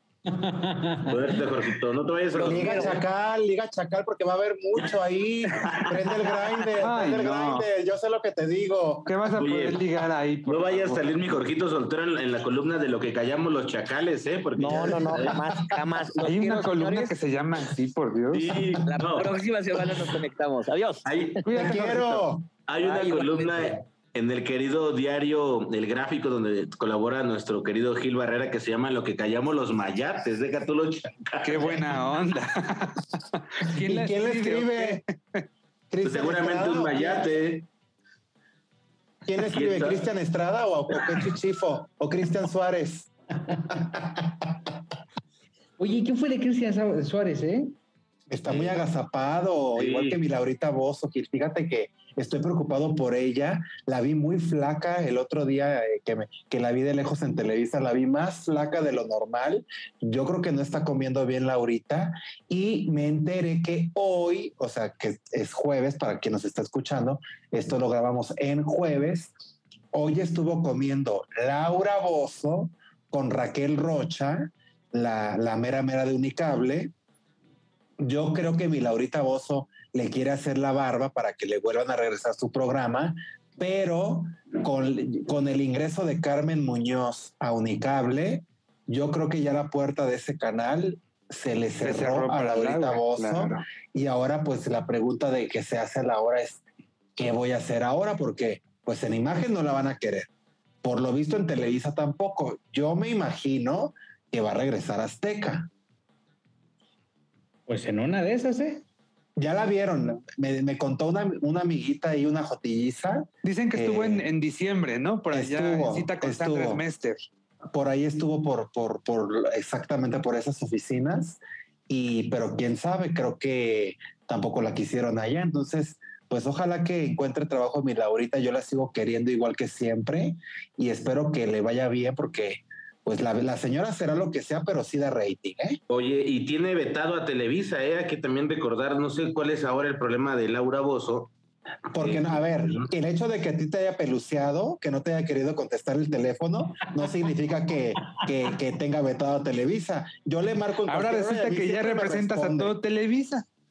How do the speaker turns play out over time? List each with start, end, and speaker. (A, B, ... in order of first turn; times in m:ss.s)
0:00.3-0:01.1 A
0:01.1-0:03.0 B
0:02.3-0:03.0 C
0:02.4-0:09.3 D
0:06.8-0:07.6 E
0:09.0-0:11.1 E
0:09.4-0:09.8 B
0:10.4-0:15.4 B
0:14.6-0:17.2 C
0:14.7-0:15.2 D
0:16.2-0:18.6 E
0:18.3-0:19.3 B
0:18.8-0:21.7 C
0:21.0-0:21.4 B
0:21.5-0:22.2 E
0:21.5-0:22.4 D
0:22.7-0:31.8 B
0:22.8-0:23.8 C
0:31.4-0:35.4 E
0:33.7-0:35.0 D
0:35.9-0:37.3 D
0:36.0-0:37.6 B
0:39.2-0:43.1 D
0:39.5-0:40.1 B
0:43.7-0:44.5 D
0:45.8-0:47.7 A
0:48.3-1:09.3 D
0:48.5-0:48.8 B
0:49.7-0:50.2 B
1:09.9-1:16.9 D
1:18.0-1:36.6 D
1:31.8-1:33.6 E
1:37.2-1:40.3 D
1:40.8-1:45.7 D
1:47.7-1:48.8 A
1:49.4-1:54.2 D
1:53.4-1:57.2 E
1:55.3-1:56.8 D
1:57.7-2:15.8 D
2:15.9-2:21.3 B
2:21.9-2:32.7 D
2:22.0-2:22.8 B
2:30.9-2:33.5 E